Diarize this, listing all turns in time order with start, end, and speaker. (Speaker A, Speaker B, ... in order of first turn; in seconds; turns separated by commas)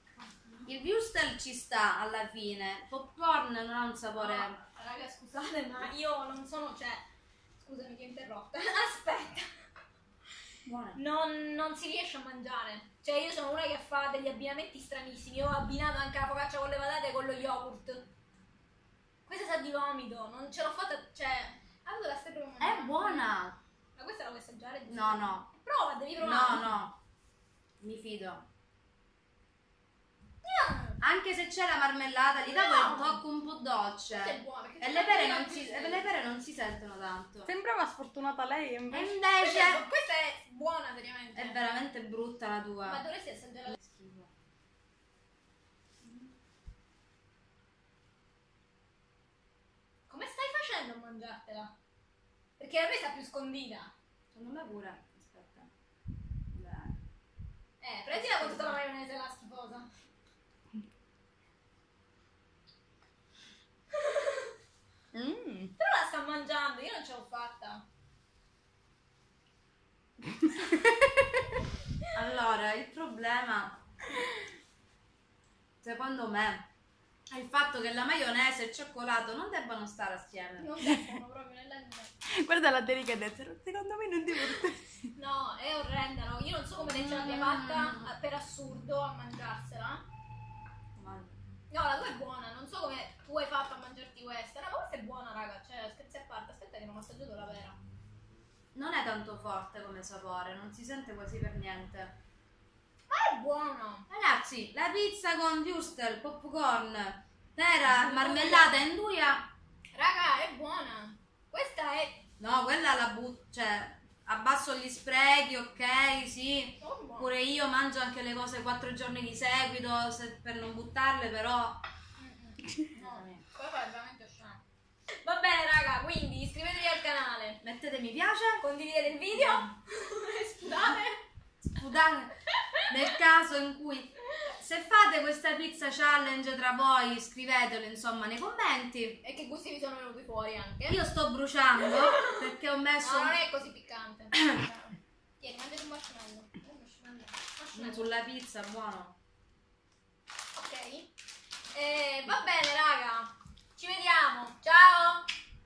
Speaker A: 0.7-4.6, Speaker B: 4.2-7.0, Speaker B: 7.6-9.5, Speaker A: 10.6-11.0, Speaker B: 10.9-18.1, Speaker B: 19.3-23.3, Speaker A: 22.6-23.6, Speaker B: 23.9-26.7, Speaker A: 24.9-25.5, Speaker A: 26.2-27.0, Speaker A: 27.8-28.4, Speaker B: 30.4-31.0, Speaker A: 31.0-37.5, Speaker B: 32.4-33.2, Speaker B: 34.1-36.1, Speaker C: 37.5-39.1, Speaker A: 38.9-39.8, Speaker B: 39.4-41.6, Speaker A: 41.3-43.0, Speaker B: 42.8-43.8, Speaker A: 43.7-44.3, Speaker B: 46.0-46.3, Speaker B: 50.1-51.7, Speaker B: 52.6-53.9, Speaker A: 54.3-55.7, Speaker A: 56.5-57.0, Speaker B: 57.8-59.9, Speaker A: 58.1-58.8, Speaker B: 63.9-64.5, Speaker C: 65.1-65.7, Speaker B: 65.8-67.8, Speaker A: 72.1-73.8, Speaker A: 75.8-76.7, Speaker A: 77.3-80.9, Speaker B: 80.6-82.1, Speaker C: 82.3-85.1, Speaker B: 85.1-90.0, Speaker A: 86.8-88.1, Speaker A: 90.9-91.4, Speaker B: 91.7-97.8, Speaker A: 98.7-102.2, Speaker B: 103.1-104.1, Speaker A: 104.1-109.5, Speaker B: 107.9-108.7, Speaker B: 109.9-112.2, Speaker A: 112.4-121.8, Speaker B: 116.8-117.3, Speaker B: 122.2-124.6, Speaker A: 122.9-123.4, Speaker B: 125.2-127.6, Speaker A: 127.6-128.7, Speaker B: 128.6-131.2, Speaker A: 129.3-129.6, Speaker A: 131.7-132.3, Speaker A: 132.9-139.2, Speaker B: 139.2-141.0, Speaker A: 140.9-143.4, Speaker B: 141.8-142.4, Speaker B: 143.0-148.1, Speaker A: 147.7-149.2, Speaker B: 150.5-151.1, Speaker B: 151.7-155.2